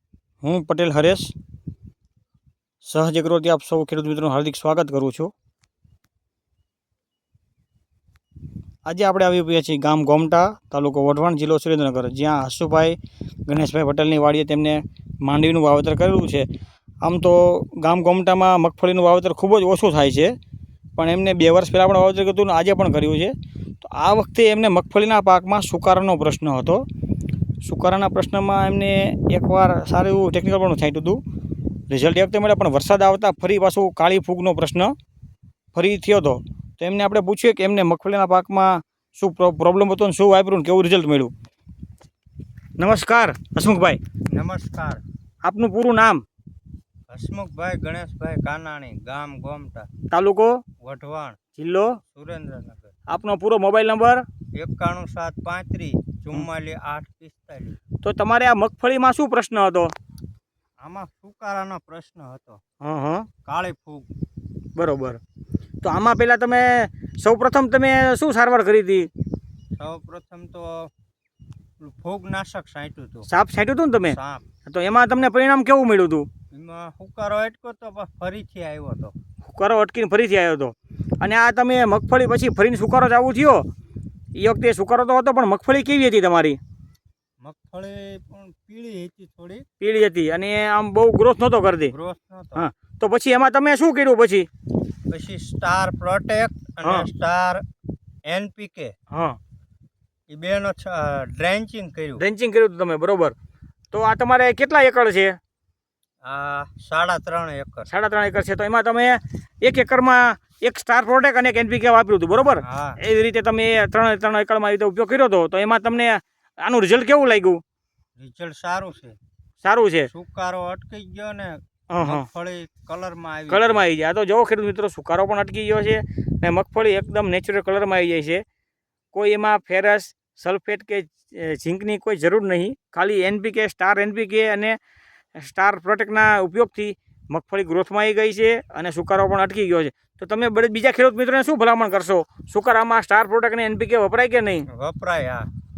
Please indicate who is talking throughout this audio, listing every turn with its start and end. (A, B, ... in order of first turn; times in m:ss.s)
0:00.4-0:01.3 A
0:02.8-0:05.3 A
0:08.8-0:16.5 A
0:17.0-0:20.4 A
0:21.0-0:26.8 A
0:27.6-0:31.2 A
0:31.9-0:34.9 A
0:35.7-0:41.3 A
0:42.8-0:44.0 A
0:44.3-0:45.0 B
0:45.4-0:46.2 A
0:47.1-0:49.9 B
0:50.1-0:50.6 A
0:50.8-0:51.4 B
0:51.6-0:52.0 A
0:52.1-0:52.9 B
0:53.1-0:54.2 A
0:54.6-0:57.8 B
0:58.0-0:59.9 A
1:00.8-1:02.6 B
1:02.8-1:03.3 A
1:03.4-1:04.1 B
1:04.8-1:05.2 A
1:05.8-1:09.1 A
1:09.8-1:10.9 B
1:11.8-1:13.3 B
1:13.3-1:16.3 A
1:14.1-1:14.4 B
1:16.5-1:19.1 B
1:19.4-1:23.6 A
1:24.3-1:26.6 A
1:27.4-1:29.6 B
1:29.8-1:31.9 A
1:31.9-1:32.7 B
1:32.6-1:34.5 A
1:35.1-1:37.6 B
1:38.2-1:38.9 B
1:39.1-1:39.4 A
1:40.3-1:42.2 B
1:42.2-1:43.4 A
1:43.9-1:45.4 A
1:46.2-1:47.9 B
1:47.9-1:57.6 A
1:52.6-1:53.0 B
1:58.2-1:59.2 B
1:59.6-2:00.1 A
2:00.1-2:03.8 B
2:01.9-2:02.3 A
2:03.5-2:08.4 A
2:09.1-2:14.8 A
2:15.4-2:24.7 A
2:24.7-2:25.5 B